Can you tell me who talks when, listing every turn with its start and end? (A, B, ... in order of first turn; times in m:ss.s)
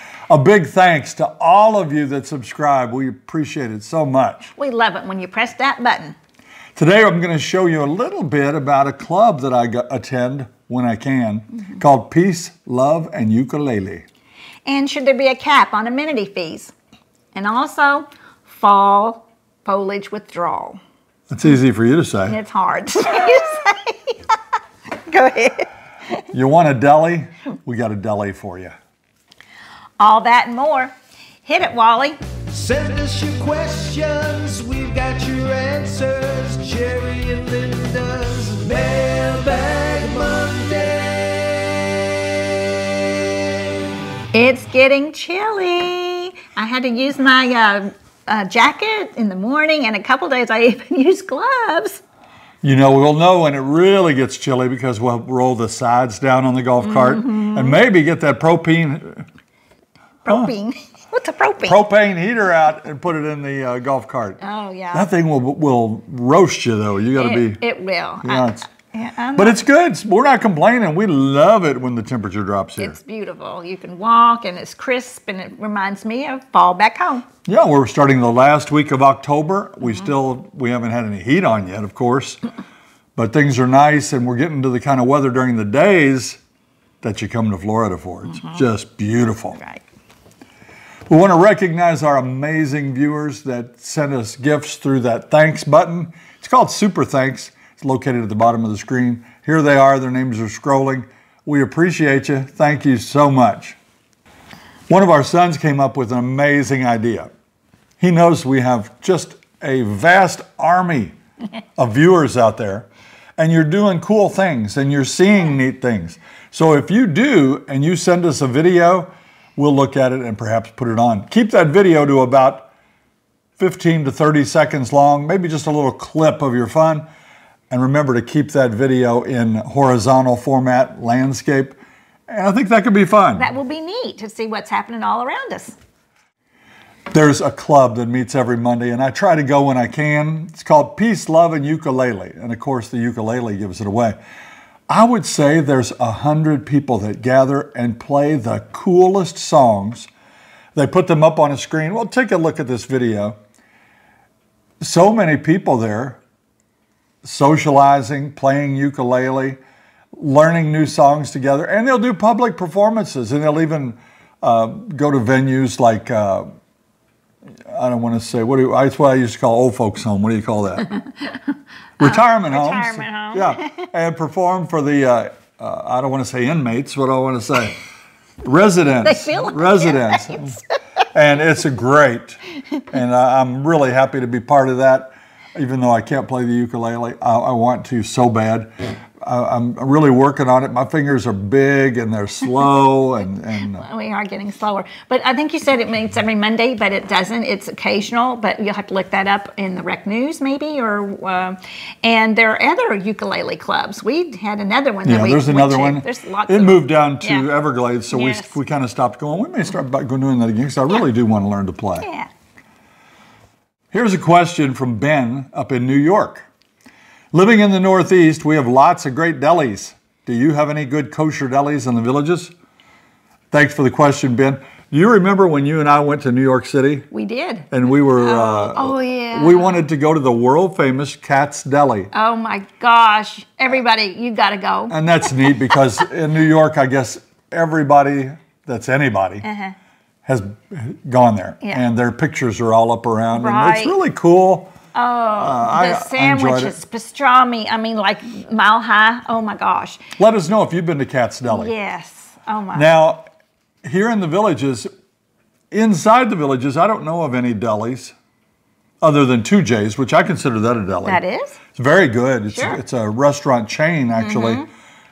0:00.3-0:04.5 A
0:04.6-0:06.2 B
0:06.8-0:14.0 A
0:14.6-0:16.7 B
0:17.3-0:20.8 B
0:21.3-0:22.4 A
0:22.3-0:24.2 B
0:24.9-0:25.7 B
0:26.3-0:28.8 A
0:30.0-0:30.9 B
0:31.4-0:32.2 B
0:32.5-0:42.8 C
0:44.3-0:52.0 B
0:52.6-0:59.2 A
0:56.8-0:57.8 B
1:00.2-1:01.8 B
1:00.2-1:00.5 A
1:01.6-1:04.4 A
1:04.4-1:05.1 B
1:04.9-1:07.6 A
1:07.2-1:09.6 B
1:08.2-1:08.7 A
1:09.3-1:13.0 A
1:12.8-1:17.3 B
1:17.4-1:22.4 A
1:23.2-1:26.4 A
1:27.0-1:29.6 A
1:31.1-1:43.8 A
1:44.9-1:47.3 A
1:48.0-1:51.1 A
1:51.8-2:02.7 A
2:03.6-2:07.1 A
2:07.7-2:11.8 A
2:12.3-2:13.5 A
2:13.4-2:15.8 B
2:17.1-2:24.2 A
2:24.9-2:30.1 A
2:30.7-2:33.4 A
2:34.8-2:36.2 A
2:37.2-2:39.6 A
2:40.1-2:46.5 A
2:47.7-2:50.9 A
2:51.0-2:51.4 B
2:52.0-2:57.8 A
2:52.0-2:53.8 B
2:58.4-3:00.6 A
2:59.0-3:00.6 B
3:01.1-3:13.9 A
3:13.7-3:27.5 B
3:25.0-3:32.1 A
3:28.1-3:28.5 B
3:32.0-3:32.3 B
3:33.9-3:36.4 A
3:37.3-3:42.5 A
3:43.5-3:47.1 A
3:47.1-3:49.8 B
3:47.7-3:52.1 A
3:52.1-3:55.0 B
3:54.9-3:59.4 A
3:59.4-3:59.7 B
4:00.2-4:04.7 A
4:03.3-4:04.0 B
4:04.9-4:10.0 B
4:05.3-4:06.8 A
4:10.2-4:11.7 A
4:11.4-4:12.9 B
4:12.7-4:13.3 A
4:13.8-4:14.9 A
4:15.7-4:18.1 A
4:19.0-4:21.2 A
4:21.0-4:21.6 B
4:21.7-4:24.7 A
4:22.5-4:22.8 B
4:24.2-4:24.6 B